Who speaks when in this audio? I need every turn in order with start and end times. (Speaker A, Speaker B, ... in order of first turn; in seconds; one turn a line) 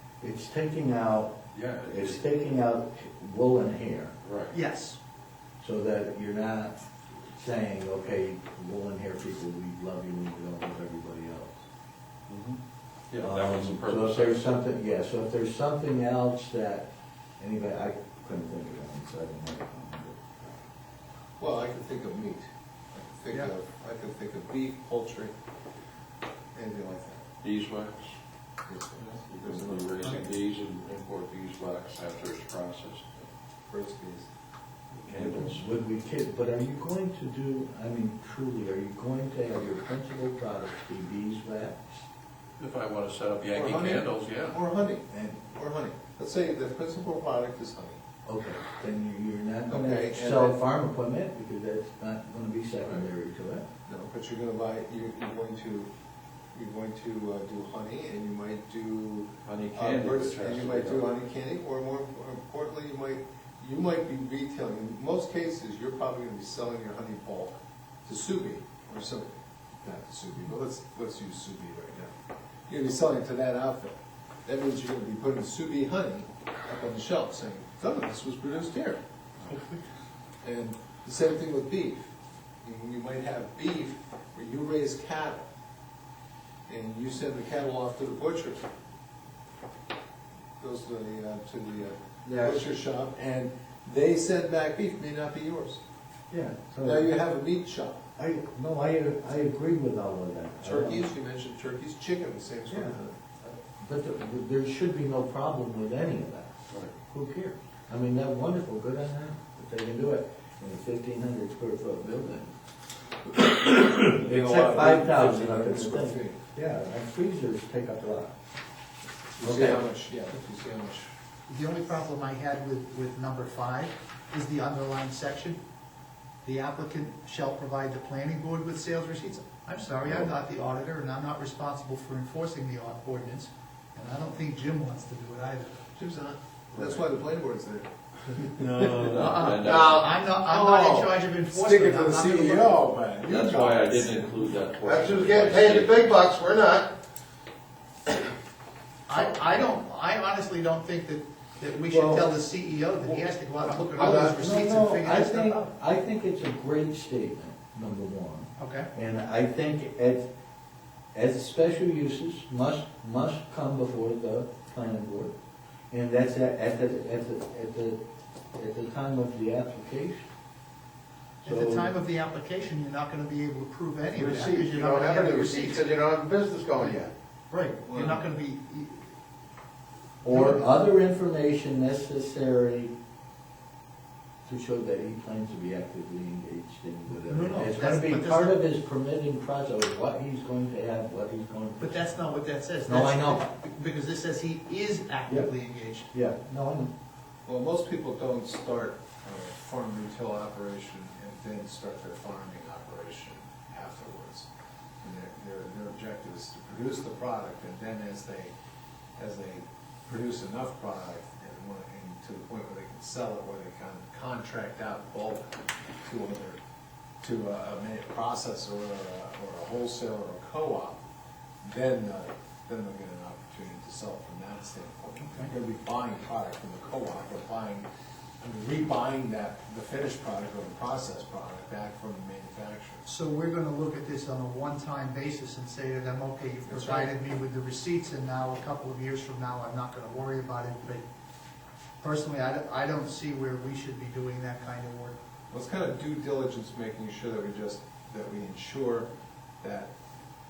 Speaker A: 0.2-4.1
Speaker B: 1.5-2.2
Speaker B: 4.2-4.5
Speaker C: 4.5-5.0
Speaker A: 5.6-6.8
Speaker A: 7.3-11.5
Speaker B: 12.3-12.6
Speaker B: 13.1-14.4
Speaker A: 13.2-20.6
Speaker D: 21.4-25.3
Speaker D: 26.5-27.2
Speaker B: 27.4-28.2
Speaker D: 28.6-30.3
Speaker B: 28.9-33.3
Speaker C: 30.0-30.3
Speaker D: 33.7-34.3
Speaker B: 35.0-35.6
Speaker A: 35.1-42.0
Speaker B: 42.6-44.6
Speaker D: 43.5-48.0
Speaker A: 48.2-53.6
Speaker D: 49.7-50.6
Speaker D: 53.9-55.9
Speaker D: 56.5-72.1
Speaker B: 59.4-61.1
Speaker D: 72.7-79.0
Speaker D: 80.4-82.1
Speaker D: 82.6-85.5
Speaker D: 86.7-88.6
Speaker D: 90.6-95.8
Speaker A: 92.2-92.6
Speaker A: 96.3-97.1
Speaker D: 96.8-98.0
Speaker A: 98.2-101.1
Speaker D: 100.6-103.2
Speaker A: 102.7-106.5
Speaker A: 107.1-112.5
Speaker A: 113.6-118.3
Speaker D: 114.0-116.4
Speaker D: 119.4-121.1
Speaker A: 119.4-119.8
Speaker C: 121.5-125.6
Speaker C: 126.4-135.8
Speaker D: 135.9-138.8
Speaker B: 136.7-137.1
Speaker B: 138.6-140.1
Speaker C: 139.1-142.8
Speaker D: 139.6-144.3
Speaker B: 143.2-146.1
Speaker E: 144.9-146.9
Speaker C: 149.1-155.7
Speaker A: 151.9-152.2
Speaker A: 153.9-160.3
Speaker C: 158.6-158.9
Speaker A: 161.1-165.3
Speaker A: 165.9-168.0
Speaker A: 168.5-170.3
Speaker A: 171.4-171.9
Speaker C: 171.4-175.9
Speaker E: 174.1-177.1
Speaker C: 177.5-179.0
Speaker E: 177.9-178.2
Speaker C: 180.2-180.7
Speaker A: 180.2-182.9
Speaker A: 184.4-192.2
Speaker C: 187.3-188.6
Speaker C: 191.8-196.1
Speaker A: 192.8-193.4
Speaker A: 196.1-196.9
Speaker D: 197.4-204.5
Speaker D: 205.0-208.5
Speaker D: 209.2-216.6
Speaker D: 217.2-221.0
Speaker D: 221.6-227.8
Speaker C: 225.2-225.5
Speaker D: 228.4-233.0
Speaker C: 233.0-241.0
Speaker D: 236.7-237.1
Speaker C: 242.0-245.2
Speaker D: 245.5-249.1
Speaker D: 249.6-249.9